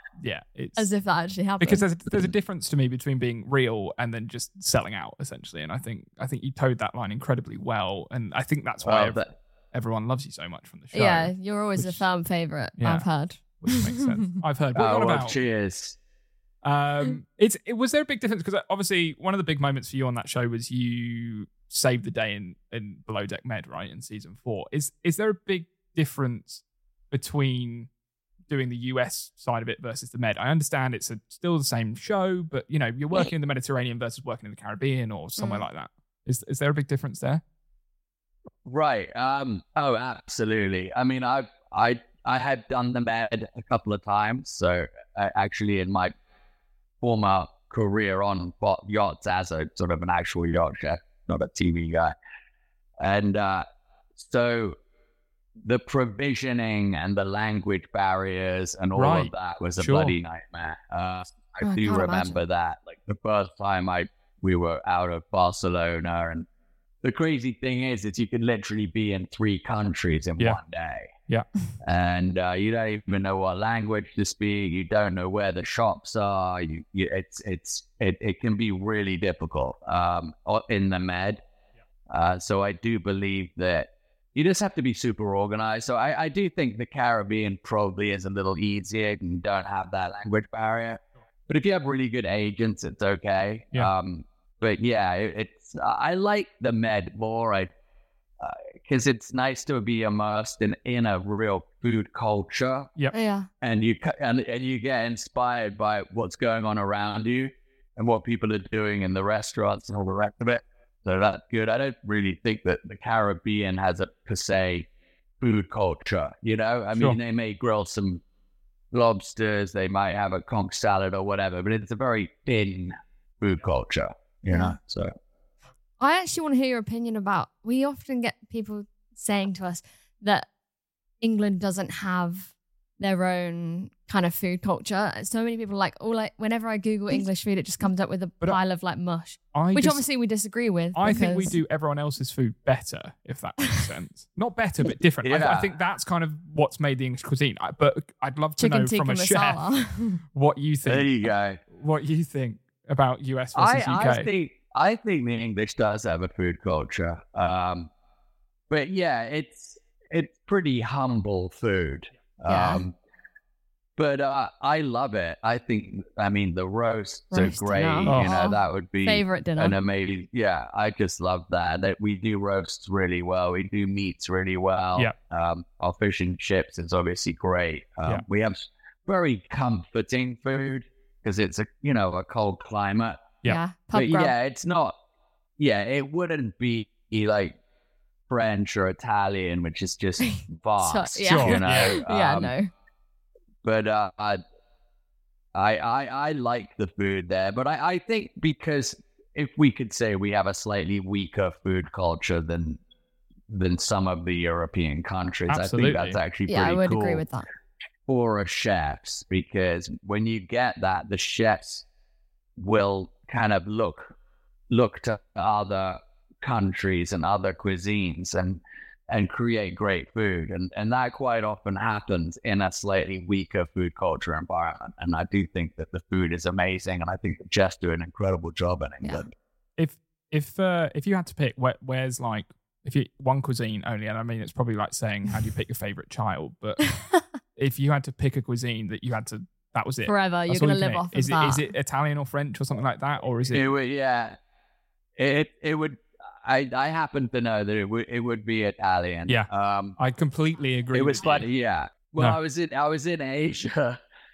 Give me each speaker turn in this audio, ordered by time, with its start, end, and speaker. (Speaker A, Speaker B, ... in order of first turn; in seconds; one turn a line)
Speaker A: 0.2-0.9
Speaker B: 0.8-2.3
Speaker A: 1.6-12.0
Speaker C: 8.8-9.3
Speaker B: 10.9-14.3
Speaker A: 12.8-13.1
Speaker A: 13.6-15.4
Speaker C: 14.7-16.0
Speaker A: 16.6-27.9
Speaker A: 28.5-37.4
Speaker B: 35.4-35.6
Speaker C: 38.6-46.1
Speaker C: 47.0-52.1
Speaker C: 53.0-53.6
Speaker C: 54.1-54.8
Speaker C: 55.6-66.5
Speaker A: 59.0-60.1
Speaker B: 61.6-62.4
Speaker C: 67.0-71.1
Speaker C: 71.8-81.4
Speaker C: 82.1-97.7
Speaker C: 98.4-102.9
Speaker B: 103.1-103.5
Speaker C: 103.6-114.9
Speaker C: 115.4-118.2
Speaker C: 118.9-125.1
Speaker B: 124.5-124.8
Speaker B: 126.0-130.5
Speaker B: 131.2-141.6
Speaker A: 139.5-140.0
Speaker A: 140.9-149.7
Speaker C: 145.2-145.8
Speaker B: 148.6-150.2
Speaker A: 150.3-154.3
Speaker C: 150.8-151.6
Speaker C: 153.5-157.9
Speaker C: 158.7-162.9
Speaker B: 162.5-162.8
Speaker C: 164.0-183.2
Speaker B: 167.3-169.8
Speaker A: 168.1-168.3
Speaker B: 183.4-184.3
Speaker C: 183.9-184.9
Speaker C: 185.6-187.6
Speaker C: 188.3-192.5
Speaker B: 190.2-192.7
Speaker A: 191.2-192.0
Speaker C: 193.6-194.4
Speaker C: 195.5-202.8
Speaker C: 203.5-207.2
Speaker A: 205.5-206.2
Speaker B: 206.5-207.4
Speaker C: 208.1-211.8
Speaker C: 212.6-214.2
Speaker C: 214.7-229.3
Speaker A: 229.8-236.8
Speaker B: 236.8-237.2
Speaker A: 237.6-243.6
Speaker B: 240.0-241.7
Speaker C: 243.5-244.4
Speaker C: 245.2-250.0
Speaker A: 249.3-251.5
Speaker C: 250.9-254.0